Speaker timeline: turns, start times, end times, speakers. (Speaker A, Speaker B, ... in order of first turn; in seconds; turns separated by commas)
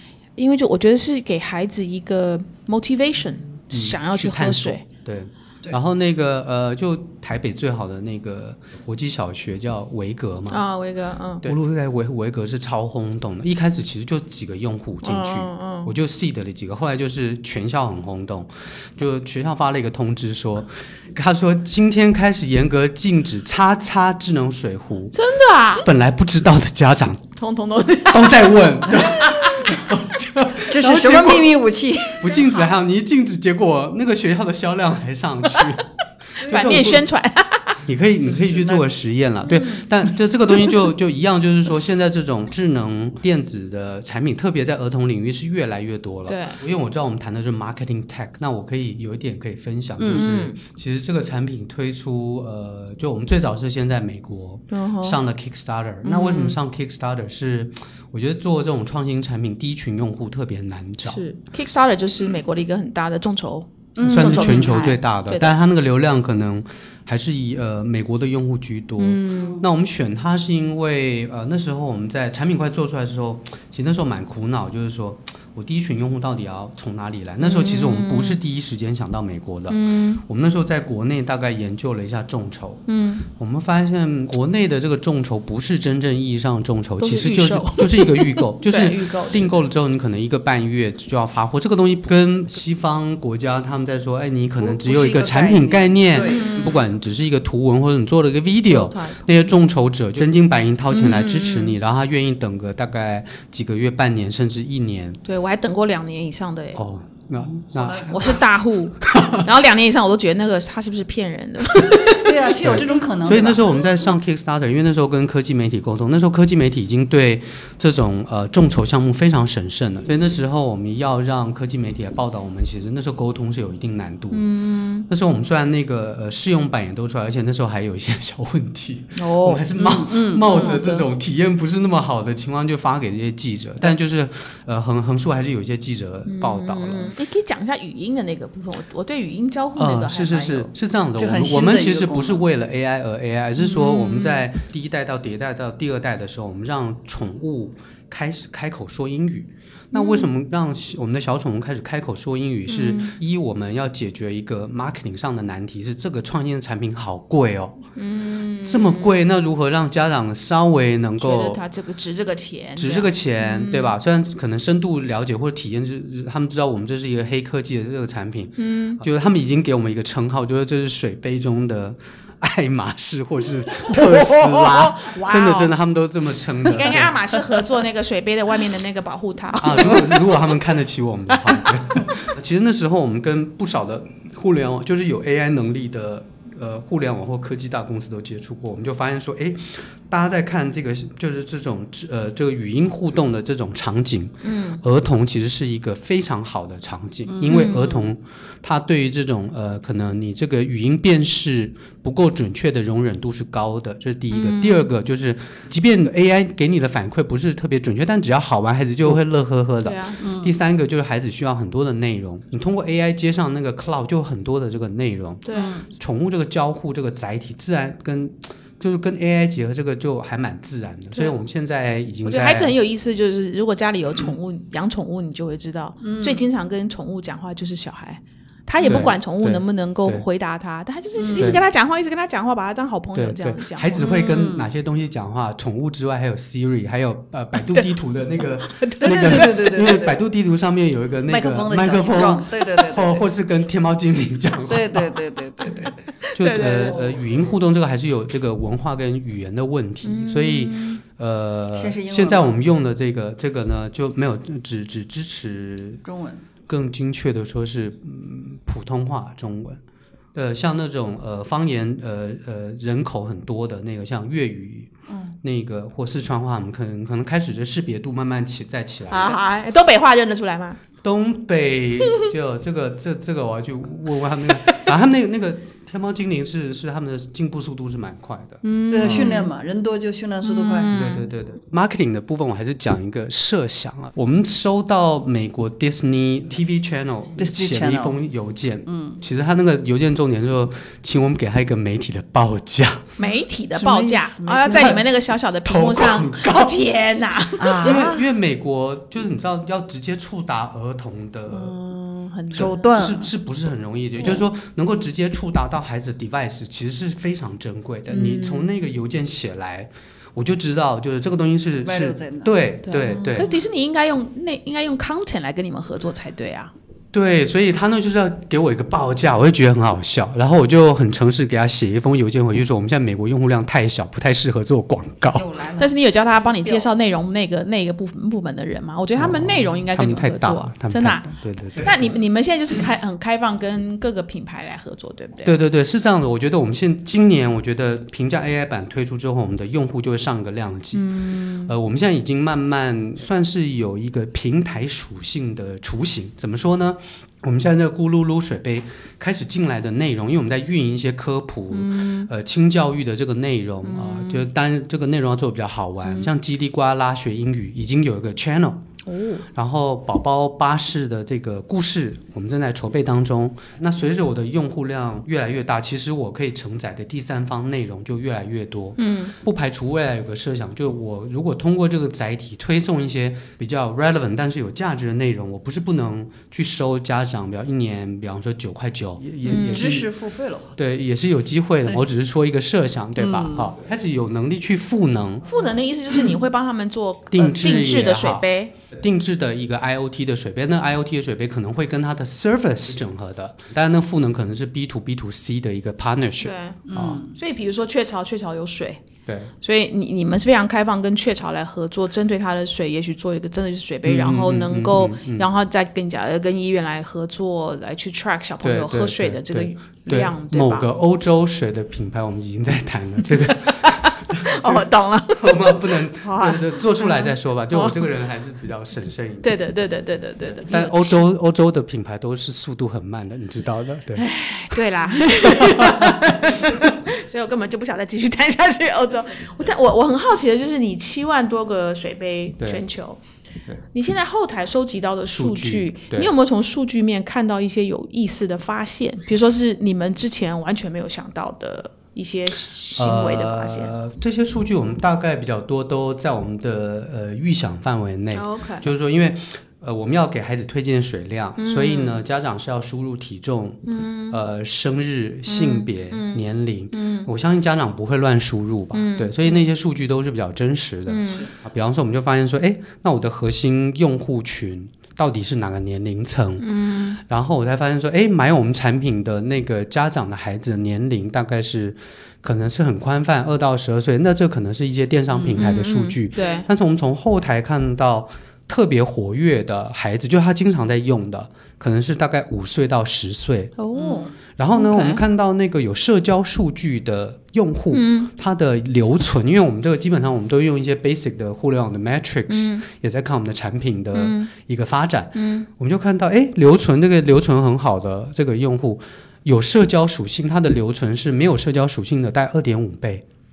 Speaker A: 0.4-4.8, Speaker B: 3.7-10.6, Speaker A: 10.5-11.5, Speaker B: 11.4-25.2, Speaker A: 15.0-15.9, Speaker A: 25.1-25.9, Speaker B: 25.8-27.3, Speaker A: 27.4-29.7, Speaker B: 28.1-31.6, Speaker C: 30.7-32.3, Speaker B: 32.1-37.0, Speaker A: 36.4-37.8, Speaker C: 36.4-36.7, Speaker B: 37.8-61.2, Speaker C: 38.4-38.8, Speaker A: 39.4-39.9, Speaker A: 46.3-46.6, Speaker C: 50.0-50.3, Speaker A: 50.1-50.6, Speaker A: 54.7-55.2, Speaker A: 56.0-56.6, Speaker A: 61.0-65.5, Speaker C: 64.0-64.8, Speaker B: 64.0-82.8, Speaker A: 69.0-69.6, Speaker C: 69.3-69.6, Speaker A: 77.4-78.4, Speaker A: 79.7-80.2, Speaker A: 82.9-83.2, Speaker B: 83.3-105.2, Speaker A: 87.0-89.5, Speaker C: 94.6-96.6, Speaker A: 96.2-96.8, Speaker A: 98.7-99.5, Speaker A: 100.9-101.7, Speaker A: 105.2-106.8, Speaker B: 106.7-108.3, Speaker A: 107.8-112.5, Speaker B: 109.0-109.4, Speaker C: 112.2-113.8, Speaker B: 112.6-124.4, Speaker A: 124.3-125.1, Speaker B: 125.1-137.1, Speaker A: 129.2-129.6, Speaker C: 129.8-131.0, Speaker A: 130.5-130.8, Speaker A: 136.3-140.7, Speaker B: 139.8-157.8, Speaker C: 141.2-142.4, Speaker A: 143.6-144.4, Speaker A: 149.9-150.3, Speaker A: 152.7-153.2, Speaker A: 157.9-159.2, Speaker B: 158.6-161.6, Speaker A: 161.2-164.0, Speaker B: 162.8-177.2, Speaker A: 168.6-169.0, Speaker A: 173.7-175.7, Speaker A: 176.7-180.6, Speaker B: 179.6-222.7, Speaker A: 181.3-182.1, Speaker A: 194.4-194.8, Speaker C: 197.3-197.8, Speaker A: 197.4-198.0, Speaker A: 204.3-204.9, Speaker A: 209.8-210.2, Speaker C: 210.2-210.6, Speaker A: 215.4-215.8, Speaker C: 215.5-215.8, Speaker A: 221.1-221.4, Speaker A: 222.2-234.5, Speaker C: 226.0-226.5, Speaker B: 228.8-230.2, Speaker C: 231.2-231.6, Speaker B: 231.3-231.6, Speaker B: 233.1-245.2, Speaker C: 234.0-234.7, Speaker A: 237.6-237.9, Speaker A: 238.6-239.5, Speaker C: 239.0-240.2, Speaker C: 241.3-243.2, Speaker C: 244.7-245.9, Speaker A: 245.8-247.0, Speaker B: 246.3-256.0, Speaker C: 246.9-247.2, Speaker A: 250.0-251.0, Speaker C: 251.7-252.6, Speaker C: 256.0-256.4, Speaker B: 256.7-259.8, Speaker B: 260.3-264.9, Speaker C: 265.1-265.3, Speaker B: 265.4-269.4, Speaker A: 269.1-270.8, Speaker B: 271.0-279.4, Speaker A: 274.6-274.9, Speaker A: 278.6-279.5, Speaker C: 278.9-281.1, Speaker A: 280.4-281.3, Speaker B: 280.9-293.1, Speaker C: 287.4-288.2, Speaker C: 288.9-289.2, Speaker A: 293.2-298.1, Speaker C: 293.2-295.0, Speaker B: 294.7-295.0, Speaker B: 295.6-296.7, Speaker C: 297.6-298.2, Speaker B: 297.8-301.8, Speaker A: 301.5-303.2, Speaker B: 302.5-313.5, Speaker C: 302.5-303.3, Speaker A: 308.1-308.7, Speaker C: 311.8-312.6, Speaker A: 312.9-316.7, Speaker B: 317.1-325.5, Speaker C: 325.2-326.9, Speaker A: 325.8-335.5, Speaker B: 329.2-332.1, Speaker B: 335.4-341.0, Speaker A: 340.9-341.7, Speaker B: 341.6-358.8, Speaker A: 351.7-352.3, Speaker A: 353.8-354.4, Speaker A: 356.0-356.3, Speaker A: 359.0-359.4, Speaker B: 359.5-380.1, Speaker A: 369.0-369.3, Speaker A: 379.4-379.9, Speaker C: 379.6-380.7, Speaker B: 380.8-385.5, Speaker C: 383.2-383.7, Speaker A: 385.4-388.7, Speaker B: 387.3-397.2, Speaker A: 396.4-399.0, Speaker C: 396.9-397.4, Speaker B: 399.2-399.5, Speaker A: 399.6-410.8, Speaker B: 404.0-405.5, Speaker B: 408.6-419.5, Speaker A: 413.4-418.1, Speaker A: 419.4-421.2, Speaker B: 420.7-424.3, Speaker A: 424.2-433.2, Speaker B: 425.4-426.9, Speaker A: 433.9-443.9, Speaker B: 435.3-436.3, Speaker B: 442.9-483.8, Speaker A: 448.3-448.9, Speaker A: 451.6-452.2, Speaker A: 453.9-454.4, Speaker A: 455.5-457.3, Speaker A: 458.9-459.7, Speaker A: 461.1-461.5, Speaker A: 466.6-467.2, Speaker A: 475.6-476.7, Speaker A: 483.8-485.2, Speaker C: 483.9-484.3, Speaker B: 484.6-503.2, Speaker A: 487.9-488.3, Speaker A: 492.5-492.8, Speaker A: 494.1-494.5, Speaker A: 495.3-495.7